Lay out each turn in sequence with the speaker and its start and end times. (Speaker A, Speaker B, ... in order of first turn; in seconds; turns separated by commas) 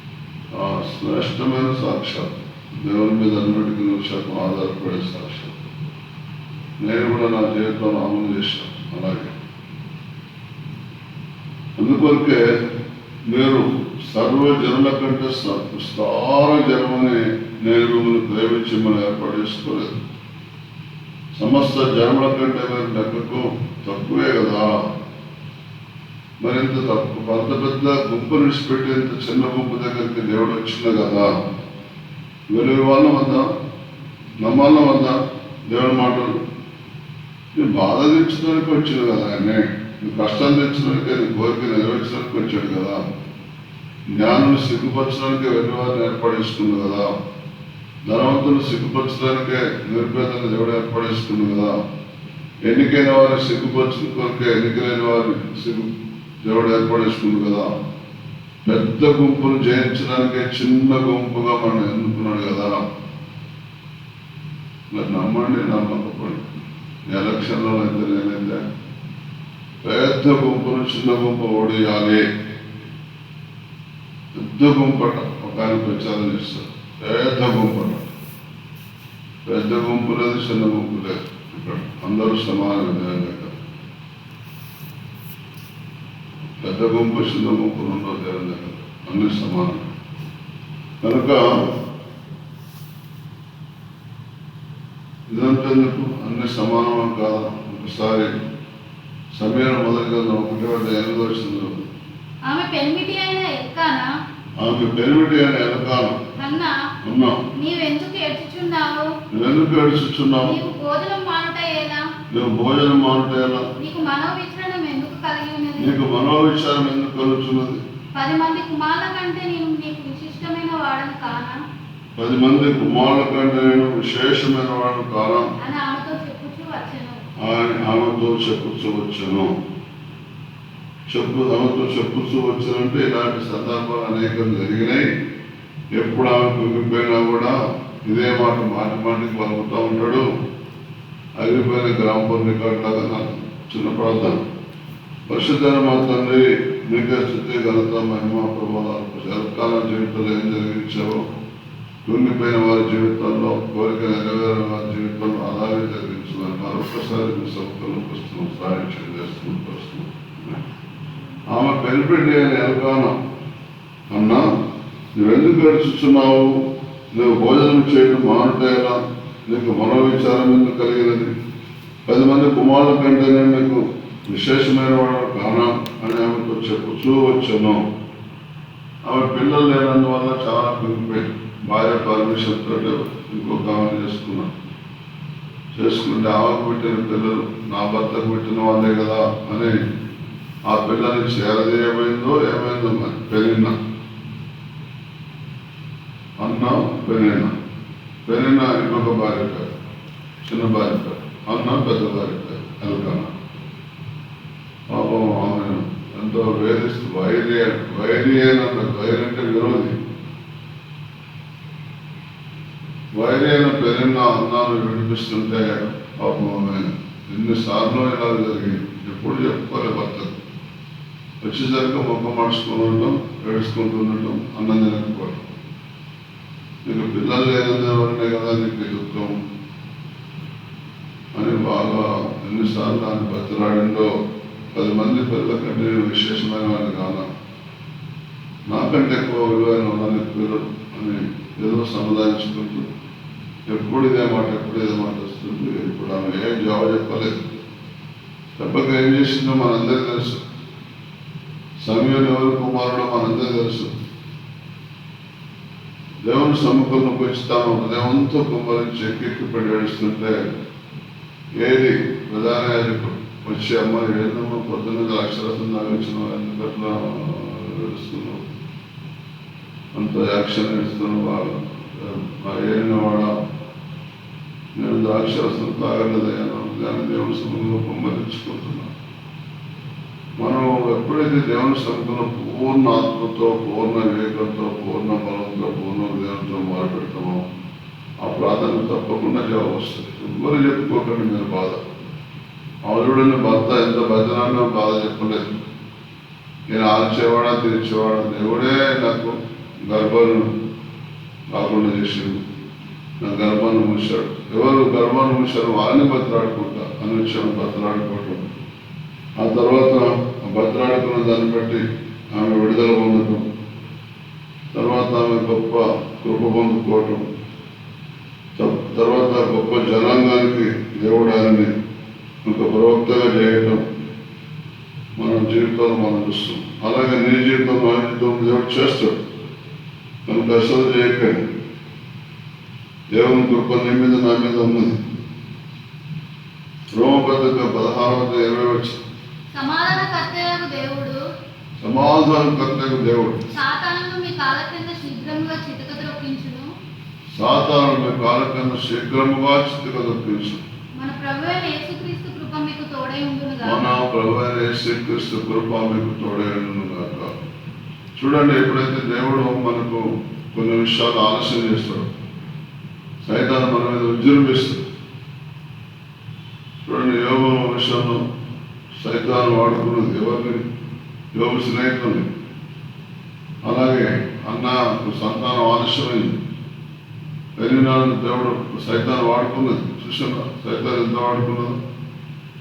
Speaker A: 0.5-2.3, Speaker A: 2.8-5.5, Speaker A: 6.8-9.3, Speaker A: 11.8-12.4, Speaker A: 13.3-19.9, Speaker A: 21.4-24.7, Speaker A: 26.4-31.3, Speaker A: 32.5-33.5, Speaker A: 34.4-35.2, Speaker A: 35.7-36.3, Speaker A: 37.5-43.0, Speaker A: 44.1-47.1, Speaker A: 48.0-51.7, Speaker A: 52.6-55.9, Speaker A: 56.4-57.7, Speaker A: 58.6-62.8, Speaker A: 64.9-66.4, Speaker A: 67.1-68.6, Speaker A: 69.8-72.2, Speaker A: 74.3-78.0, Speaker A: 79.5-83.5, Speaker A: 86.6-89.9, Speaker A: 91.0-91.4, Speaker A: 95.3-98.3, Speaker A: 99.3-101.8, Speaker B: 102.5-104.0, Speaker A: 104.6-106.2, Speaker B: 106.3-106.7, Speaker A: 107.0-107.4, Speaker B: 107.5-109.1, Speaker A: 109.3-110.5, Speaker B: 110.4-112.0, Speaker A: 112.3-113.7, Speaker B: 113.8-116.0, Speaker A: 115.8-117.8, Speaker B: 118.1-121.6, Speaker A: 122.2-125.5, Speaker B: 125.6-127.2, Speaker A: 127.4-129.5, Speaker A: 131.1-135.1, Speaker A: 135.9-137.5, Speaker A: 138.0-140.2, Speaker A: 141.4-144.4, Speaker A: 145.3-151.2, Speaker A: 152.0-160.1, Speaker A: 161.5-163.1, Speaker A: 164.1-164.4, Speaker A: 165.1-166.6, Speaker A: 167.1-171.3, Speaker A: 172.1-177.8, Speaker A: 179.0-184.5, Speaker A: 185.7-189.8, Speaker A: 190.7-193.7, Speaker A: 196.4-197.5, Speaker A: 198.2-199.7, Speaker A: 200.4-203.3, Speaker A: 204.9-209.9, Speaker A: 213.1-220.3, Speaker A: 221.4-225.5, Speaker A: 226.8-229.3, Speaker A: 231.3-234.1, Speaker A: 234.7-237.3, Speaker A: 238.7-242.9, Speaker A: 243.7-247.3, Speaker A: 248.6-250.4, Speaker A: 251.8-253.9, Speaker A: 256.2-260.4, Speaker A: 261.6-268.4, Speaker A: 269.9-273.3, Speaker A: 274.8-278.9, Speaker A: 280.4-287.4, Speaker A: 288.2-291.8, Speaker A: 292.8-295.4, Speaker A: 296.7-300.5, Speaker A: 301.5-302.4, Speaker A: 303.2-308.5, Speaker A: 309.4-313.4, Speaker A: 314.7-317.2, Speaker A: 318.6-321.7, Speaker A: 322.4-323.8, Speaker A: 325.2-329.1, Speaker A: 330.3-331.4, Speaker A: 333.1-335.0, Speaker A: 336.9-339.0, Speaker B: 339.5-341.2, Speaker A: 341.8-343.4, Speaker B: 343.5-346.7, Speaker A: 347.3-350.6, Speaker B: 351.0-353.8, Speaker A: 353.6-357.3, Speaker A: 358.1-362.1, Speaker A: 363.2-364.8, Speaker A: 366.8-368.2, Speaker A: 368.9-370.6, Speaker A: 371.3-372.2, Speaker A: 373.6-376.3, Speaker A: 377.6-381.8